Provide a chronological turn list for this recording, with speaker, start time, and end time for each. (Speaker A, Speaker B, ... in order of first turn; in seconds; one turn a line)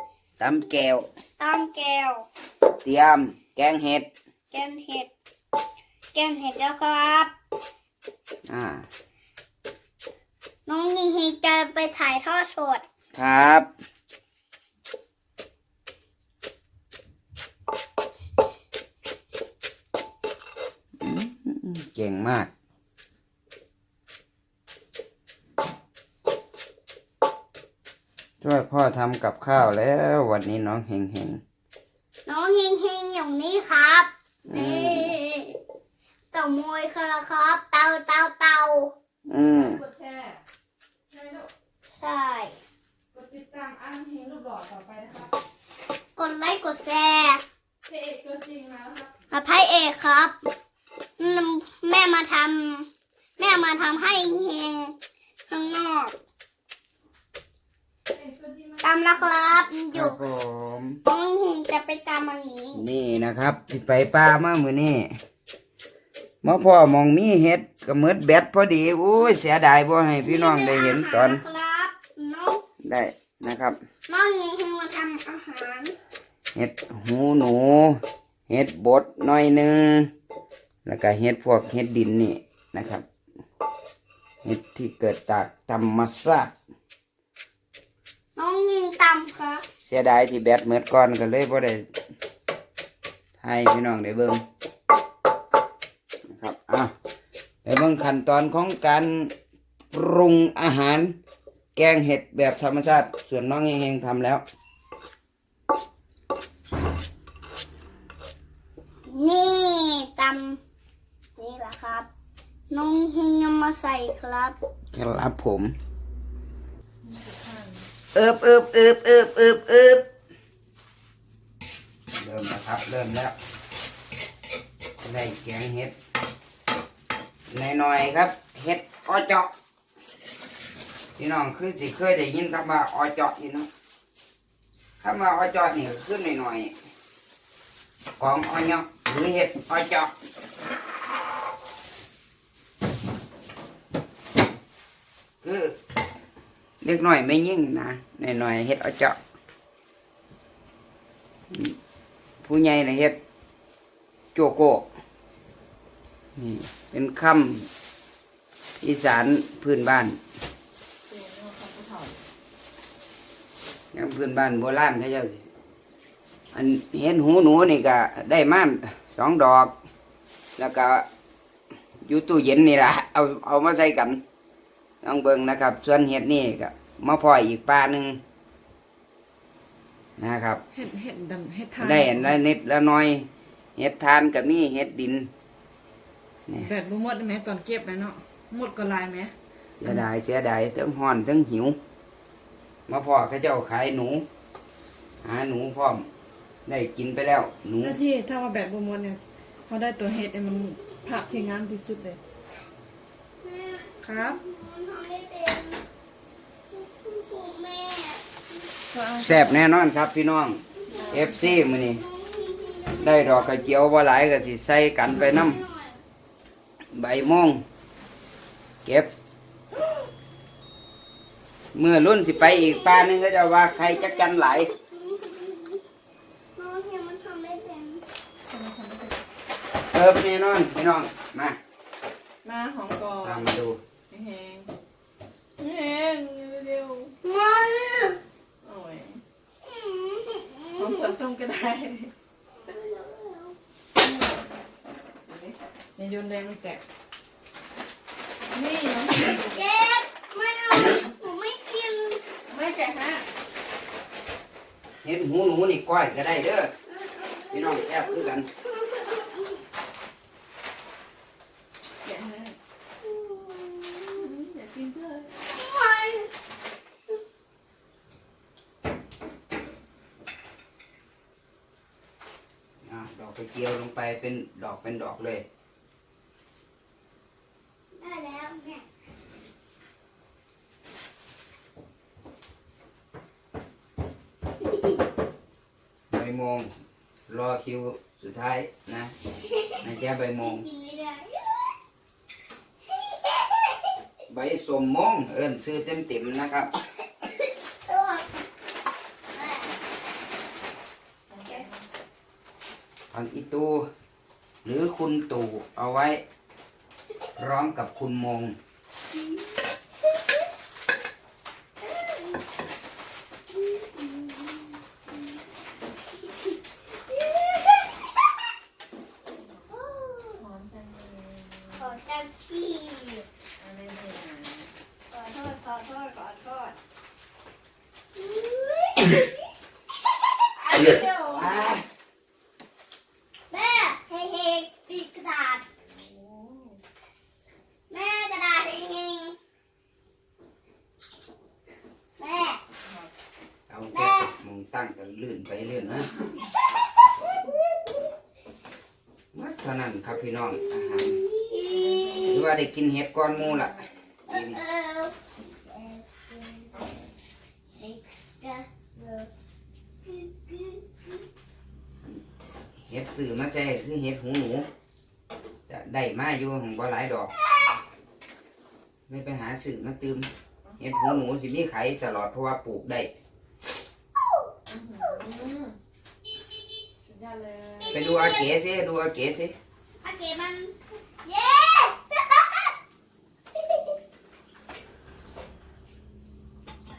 Speaker A: 0.4-1.1
Speaker B: 1.4-2.2
Speaker A: 2.8-4.1
Speaker B: 4.5-5.1
Speaker B: 6.1-7.3
Speaker A: 8.5-8.8
Speaker B: 10.7-12.8
Speaker A: 13.1-13.7
Speaker A: 21.0-22.5
Speaker A: 28.4-31.4
Speaker B: 32.2-35.6
Speaker A: 34.5-35.1
Speaker B: 36.3-38.9
Speaker A: 39.3-39.8
Speaker C: 39.4-40.4
Speaker C: 41.1-41.5
Speaker B: 41.9-42.6
Speaker C: 43.1-45.3
Speaker B: 46.1-47.4
Speaker C: 47.9-49.1
Speaker B: 49.3-50.3
Speaker B: 51.2-52.9
Speaker B: 53.4-54.9
Speaker B: 55.5-56.1
Speaker C: 58.1-59.6
Speaker B: 58.8-60.2
Speaker A: 59.9-61.0
Speaker B: 61.0-62.8
Speaker A: 62.7-65.1
Speaker A: 66.4-71.4
Speaker B: 70.2-72.6
Speaker A: 72.8-73.8
Speaker B: 74.1-75.9
Speaker A: 76.5-78.0
Speaker A: 78.5-80.1
Speaker A: 80.8-83.0
Speaker A: 84.4-86.5
Speaker B: 88.3-89.6
Speaker A: 89.8-91.9
Speaker A: 93.4-94.4
Speaker A: 96.3-96.9
Speaker A: 97.6-99.3
Speaker A: 99.9-101.2
Speaker A: 101.8-104.4
Speaker B: 109.0-110.6
Speaker B: 111.4-112.1
Speaker B: 112.7-114.5
Speaker A: 114.9-115.7
Speaker C: 117.0-117.9
Speaker A: 118.1-120.1
Speaker A: 122.2-123.3
Speaker A: 125.0-125.9
Speaker A: 127.5-129.5
Speaker A: 131.2-133.7
Speaker A: 135.0-136.7
Speaker A: 138.2-140.1
Speaker A: 145.4-145.7
Speaker A: 146.8-149.2
Speaker A: 152.4-153.2
Speaker A: 154.3-154.9
Speaker A: 156.4-157.7
Speaker A: 158.8-160.2
Speaker C: 161.1-162.2
Speaker A: 163.9-165.5
Speaker A: 166.5-169.7
Speaker A: 170.6-171.0
Speaker A: 172.1-174.2
Speaker A: 175.0-178.2
Speaker A: 180.2-180.6
Speaker C: 180.7-182.4
Speaker A: 181.8-185.3
Speaker C: 186.6-189.3
Speaker A: 189.8-191.8
Speaker A: 192.9-194.2
Speaker A: 195.2-196.1
Speaker A: 196.7-198.0
Speaker C: 197.8-202.2
Speaker B: 203.4-205.8
Speaker C: 204.0-204.4
Speaker B: 206.7-208.3
Speaker C: 208.9-209.7
Speaker A: 209.1-212.0
Speaker B: 210.9-213.7
Speaker C: 210.9-211.6
Speaker A: 213.0-215.6
Speaker B: 215.2-216.0
Speaker A: 216.9-217.6
Speaker A: 218.8-219.1
Speaker A: 221.7-224.7
Speaker B: 222.3-225.8
Speaker B: 226.6-228.0
Speaker C: 228.5-229.2
Speaker A: 229.9-231.6
Speaker C: 232.4-233.5
Speaker A: 233.2-233.8
Speaker C: 234.1-234.7
Speaker C: 235.6-237.1
Speaker B: 237.2-238.2
Speaker C: 238.6-239.2
Speaker B: 239.6-241.1
Speaker C: 240.8-242.1
Speaker B: 242.5-243.6
Speaker C: 244.0-244.5
Speaker C: 245.2-246.8
Speaker C: 248.5-249.6
Speaker B: 249.4-252.2
Speaker C: 252.5-253.2
Speaker A: 255.0-256.7
Speaker B: 256.9-259.6
Speaker A: 257.5-258.5
Speaker C: 262.0-262.5
Speaker B: 263.0-264.3
Speaker C: 264.1-265.3
Speaker B: 265.4-266.3
Speaker A: 272.8-275.4
Speaker B: 277.9-278.9
Speaker A: 286.1-286.7
Speaker A: 287.3-289.1
Speaker B: 289.5-289.8
Speaker A: 289.8-290.6
Speaker B: 290.4-291.7
Speaker B: 292.9-293.9
Speaker A: 294.3-296.7
Speaker B: 297.9-298.3
Speaker B: 299.3-299.7
Speaker C: 301.3-301.9
Speaker A: 303.1-303.9
Speaker A: 304.6-306.2
Speaker A: 307.4-308.5
Speaker B: 311.8-312.4
Speaker B: 313.5-314.6
Speaker B: 317.1-317.9
Speaker C: 319.3-319.7
Speaker B: 319.7-320.4
Speaker C: 320.4-321.9
Speaker B: 321.7-323.2
Speaker C: 323.6-324.7
Speaker B: 325.1-326.7
Speaker B: 328.1-329.3
Speaker B: 330.7-330.9
Speaker A: 330.7-331.8
Speaker C: 330.9-331.7
Speaker B: 333.5-335.6
Speaker C: 335.9-336.8
Speaker B: 337.9-339.3
Speaker B: 342.2-342.6
Speaker C: 342.8-343.1
Speaker A: 343.7-346.1
Speaker B: 343.9-344.3
Speaker B: 346.7-348.0
Speaker A: 349.3-351.2
Speaker B: 350.4-352.4
Speaker C: 351.7-352.5
Speaker A: 352.2-354.6
Speaker C: 353.4-353.9
Speaker B: 354.3-356.9
Speaker B: 357.8-359.3
Speaker B: 360.0-361.1
Speaker A: 362.9-364.7
Speaker A: 365.7-367.3
Speaker B: 367.5-367.7
Speaker A: 369.1-373.1
Speaker B: 374.2-375.2
Speaker C: 374.7-375.8
Speaker C: 377.0-378.0
Speaker B: 377.8-378.5
Speaker A: 377.9-379.5
Speaker B: 380.0-382.7
Speaker B: 383.6-383.9